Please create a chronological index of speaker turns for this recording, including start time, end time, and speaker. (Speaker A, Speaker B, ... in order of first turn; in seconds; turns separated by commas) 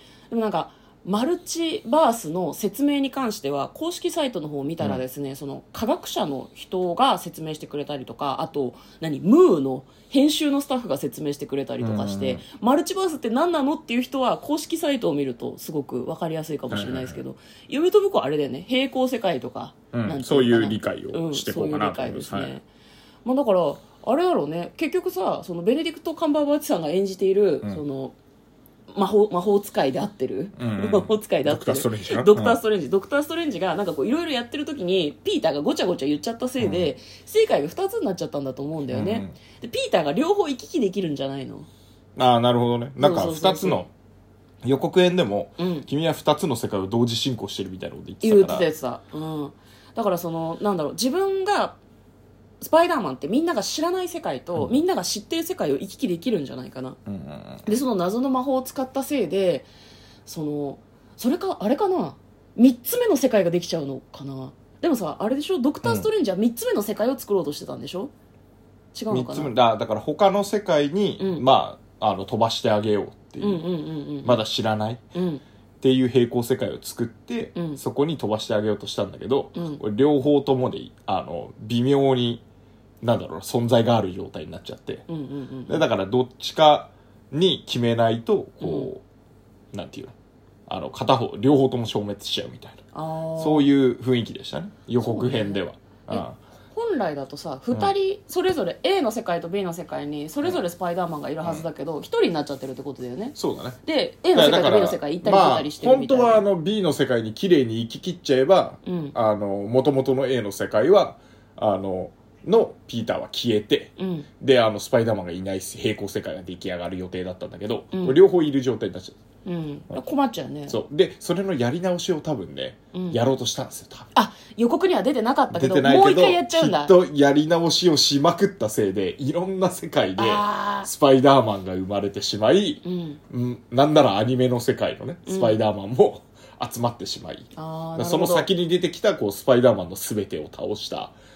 Speaker A: 0.3-22.6, Speaker B: 11.8-12.4, Speaker B: 16.7-17.2, Speaker B: 19.9-22.5, Speaker A: 23.2-28.2, Speaker A: 28.9-41.7, Speaker B: 30.6-32.6, Speaker B: 36.6-36.9, Speaker B: 38.9-39.4, Speaker B: 42.2-43.9, Speaker A: 43.0-43.8, Speaker B: 44.6-48.7, Speaker A: 45.6-45.9, Speaker A: 48.2-51.8, Speaker A: 52.6-57.0, Speaker B: 57.1-57.7, Speaker A: 57.6-59.7, Speaker A: 60.2-68.1, Speaker A: 68.9-69.5, Speaker B: 69.1-73.7, Speaker A: 71.2-71.4, Speaker A: 73.4-74.4, Speaker B: 74.2-75.0, Speaker A: 75.2-75.4, Speaker B: 75.8-82.4, Speaker A: 77.5-77.8, Speaker A: 79.5-79.8, Speaker B: 83.0-85.0, Speaker A: 85.1-85.8, Speaker B: 85.7-89.0, Speaker A: 88.6-88.9, Speaker B: 89.7-90.1, Speaker B: 90.7-92.8, Speaker A: 92.9-93.7, Speaker B: 93.4-96.4, Speaker A: 95.0-106.4, Speaker B: 103.4-103.8, Speaker B: 104.3-119.2, Speaker A: 108.8-109.1, Speaker A: 114.0-114.3, Speaker A: 117.9-118.2, Speaker A: 119.4-120.8, Speaker B: 120.7-124.1, Speaker A: 122.9-123.2, Speaker A: 124.2-126.9, Speaker B: 125.5-141.1, Speaker A: 130.2-130.9, Speaker A: 132.8-133.2, Speaker A: 135.2-135.6, Speaker A: 137.6-138.5